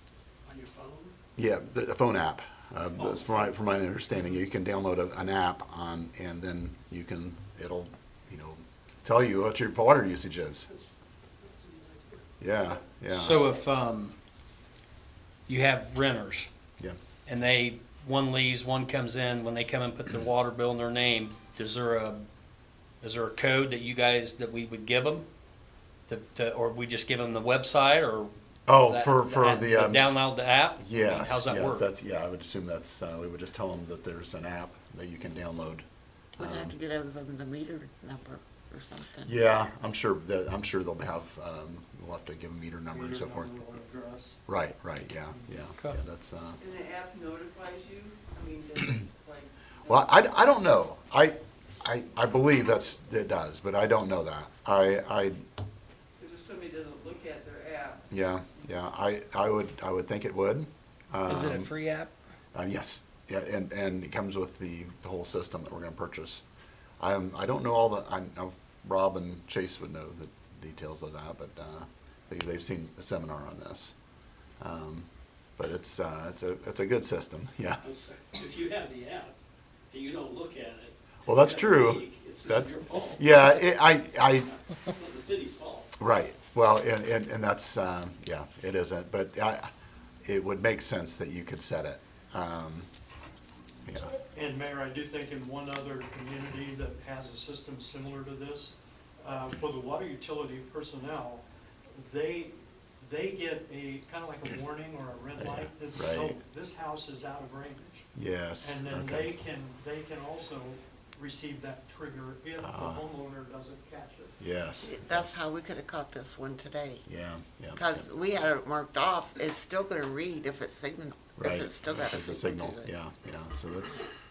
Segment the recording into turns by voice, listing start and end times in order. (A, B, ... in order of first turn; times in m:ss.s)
0:00.5-0:01.2 A
0:01.4-0:10.7 B
0:03.0-0:03.5 A
0:10.7-0:12.3 A
0:12.4-0:13.4 B
0:13.1-0:14.2 C
0:15.5-0:16.5 C
0:17.3-0:22.3 C
0:23.0-0:25.3 C
0:26.1-0:31.9 C
0:28.7-0:30.2 B
0:30.8-0:35.8 B
0:36.4-0:36.8 B
0:36.4-0:39.4 D
0:39.2-0:43.7 B
0:42.9-0:44.4 E
0:44.5-0:46.6 B
0:46.6-0:50.0 F
0:49.9-0:55.4 B
0:56.2-0:58.0 F
0:58.1-1:01.7 B
1:01.3-1:02.1 C
1:02.5-1:06.4 B
1:07.0-1:13.9 B
1:14.6-1:17.8 B
1:17.8-1:19.4 A
1:19.9-1:23.6 A
1:21.3-1:24.5 B
1:24.4-1:25.9 A
1:26.0-1:29.7 B
1:30.2-1:32.9 B
1:33.9-1:34.2 B
1:34.3-1:48.1 E
1:45.4-1:46.4 B
1:48.2-1:49.3 B
1:48.6-1:54.4 E
1:52.6-1:53.0 B
1:54.4-1:55.3 B
1:54.8-1:57.0 D
1:57.1-1:58.1 B
1:57.7-2:02.9 D
2:01.4-2:04.1 B